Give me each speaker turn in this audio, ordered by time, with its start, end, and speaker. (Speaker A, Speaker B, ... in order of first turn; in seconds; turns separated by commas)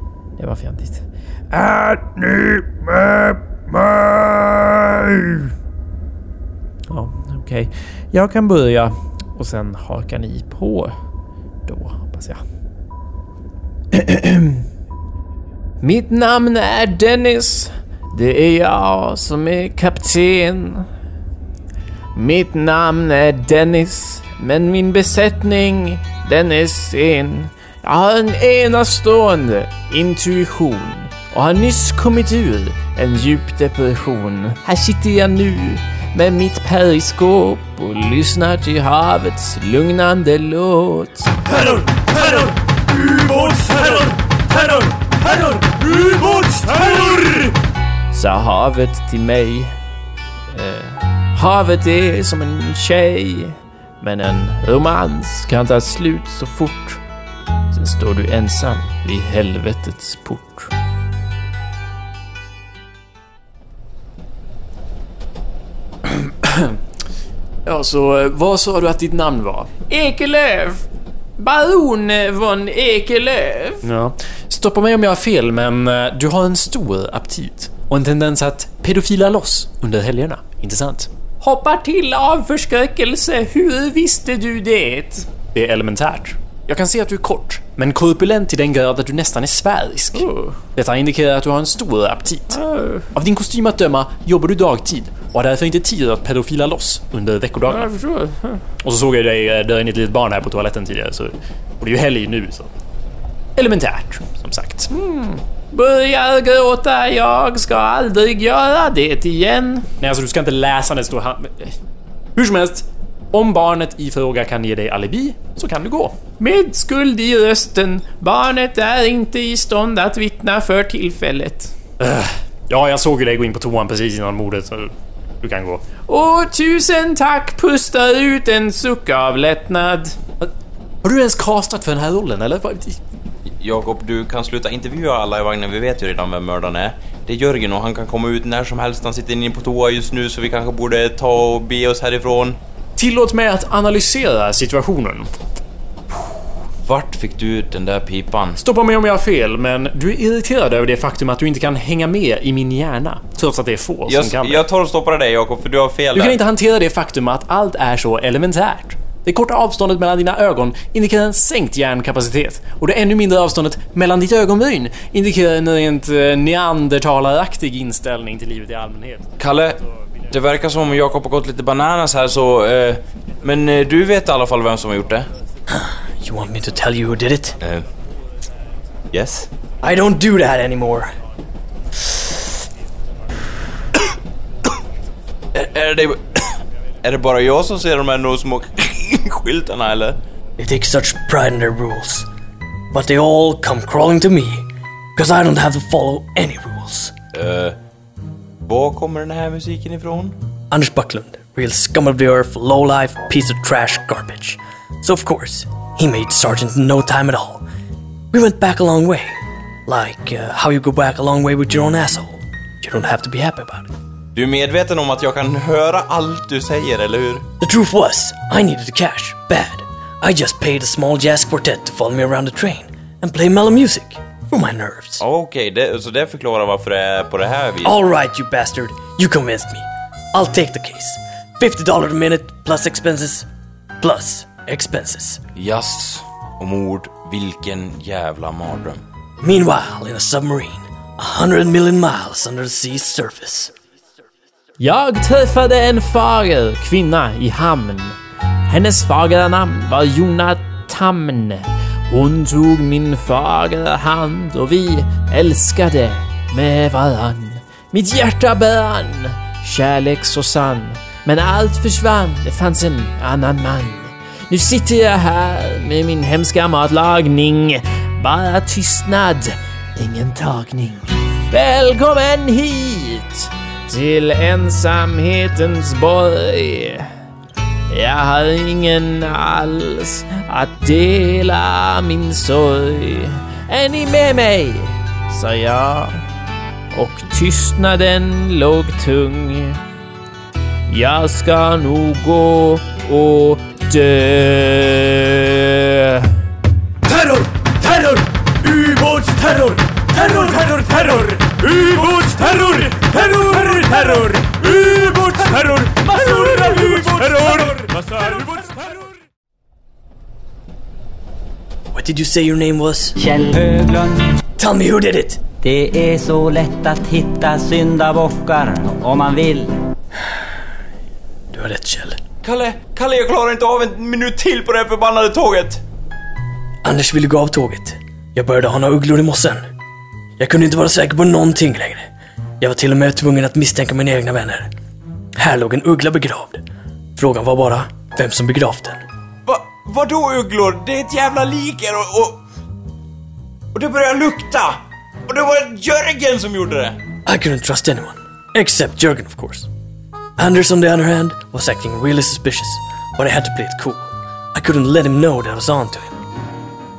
Speaker A: 0.4-5.5, Speaker A: 6.9-10.9, Speaker A: 11.7-12.4, Speaker A: 13.9-14.6, Speaker A: 15.8-20.9, Speaker A: 22.1-41.4, Speaker A: 48.1-49.8, Speaker A: 50.5-57.0, Speaker A: 57.7-60.7, Speaker B: 66.1-66.8, Speaker B: 67.7-69.7, Speaker A: 69.9-70.9, Speaker A: 71.4-73.8, Speaker B: 73.8-81.1, Speaker A: 81.4-85.3, Speaker B: 85.5-92.6, Speaker A: 90.2-90.6, Speaker A: 92.5-93.1, Speaker B: 93.1-97.9, Speaker A: 97.7-98.6, Speaker B: 98.8-102.7, Speaker B: 103.6-104.9, Speaker A: 104.9-109.9, Speaker B: 110.0-111.8, Speaker B: 112.4-116.2, Speaker A: 116.4-121.8, Speaker B: 122.0-125.9, Speaker A: 126.0-130.2, Speaker B: 131.0-133.0, Speaker C: 133.5-142.6, Speaker B: 143.0-145.3, Speaker C: 146.8-148.6, Speaker B: 148.6-154.7, Speaker C: 154.1-156.4, Speaker B: 156.1-169.4, Speaker C: 169.4-175.3, Speaker D: 175.7-177.6, Speaker C: 177.6-177.9, Speaker C: 179.1-179.5, Speaker D: 179.8-181.2, Speaker C: 185.5-190.2, Speaker D: 190.6-192.3, Speaker D: 192.9-197.1, Speaker C: 197.3-197.8, Speaker C: 198.7-200.4, Speaker D: 200.7-207.7, Speaker D: 208.3-213.9, Speaker C: 214.3-217.4, Speaker D: 217.6-225.2, Speaker C: 225.2-227.9, Speaker D: 227.8-233.5, Speaker D: 234.0-235.4, Speaker C: 235.6-239.0, Speaker D: 239.4-243.7, Speaker A: 244.8-248.2, Speaker A: 248.7-277.1, Speaker A: 277.9-286.2, Speaker A: 286.9-289.8, Speaker A: 290.9-296.3, Speaker B: 306.2-307.1, Speaker D: 311.9-313.2, Speaker E: 313.2-314.4, Speaker D: 314.6-315.4, Speaker E: 315.6-319.8, Speaker D: 321.5-322.2, Speaker C: 322.4-325.8, Speaker D: 326.8-329.6, Speaker D: 330.4-334.7, Speaker D: 335.4-336.6, Speaker D: 337.2-339.0, Speaker C: 339.5-342.4, Speaker C: 343.7-347.0, Speaker D: 347.2-349.7, Speaker D: 350.4-356.2